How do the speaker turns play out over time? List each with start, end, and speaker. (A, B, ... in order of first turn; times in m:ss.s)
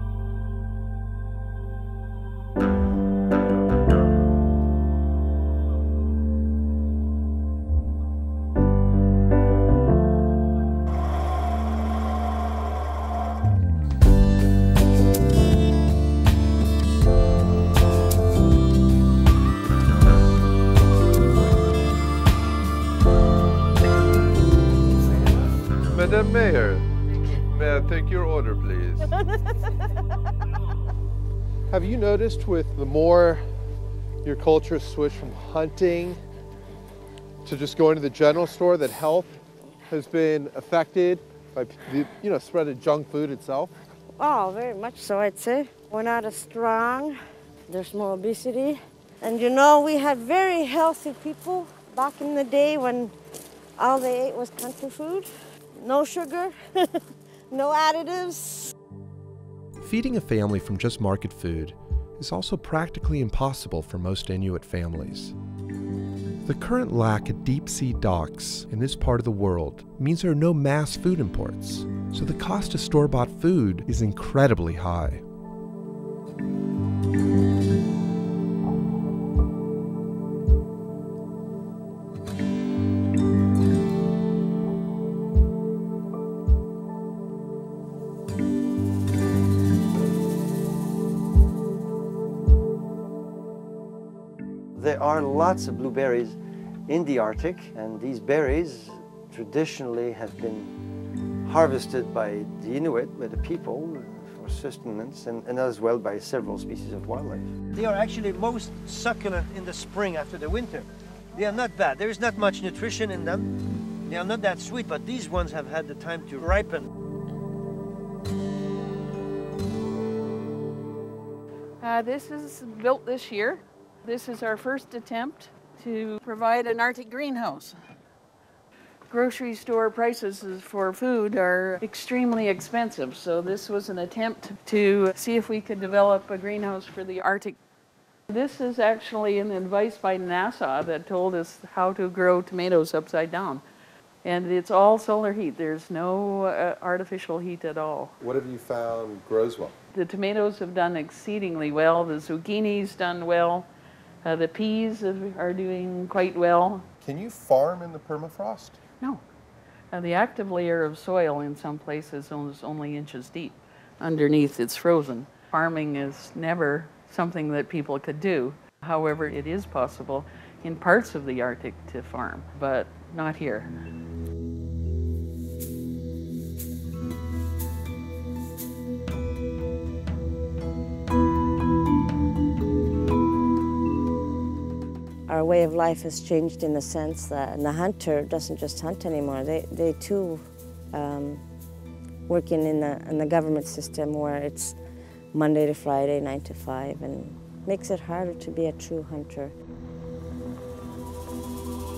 0:25.9-0:26.8 A
0:27.5-0:29.1 A
0:31.7-0:33.4 A
0:34.2-0:36.2 A
0:37.4-0:39.4 A
0:39.9-0:43.7 A
0:44.2-0:47.2 B
0:47.7-0:53.1 B
0:53.8-0:56.9 B
0:57.5-0:58.7 B
0:59.8-1:05.3 C
1:06.4-1:15.2 C
1:34.7-1:40.7 D
1:41.4-1:53.5 D
1:54.0-1:56.9 D
2:01.8-2:07.8 E
2:09.1-2:17.6 E
2:18.3-2:23.6 E
2:24.2-2:28.1 E
2:28.2-2:29.7 A
2:29.9-2:33.7 E
2:34.2-2:36.8 E
2:37.0-2:38.8 A
2:39.9-2:53.7 E
3:05.3-3:11.4 B
3:12.3-3:14.8 B
3:15.3-3:19.5 B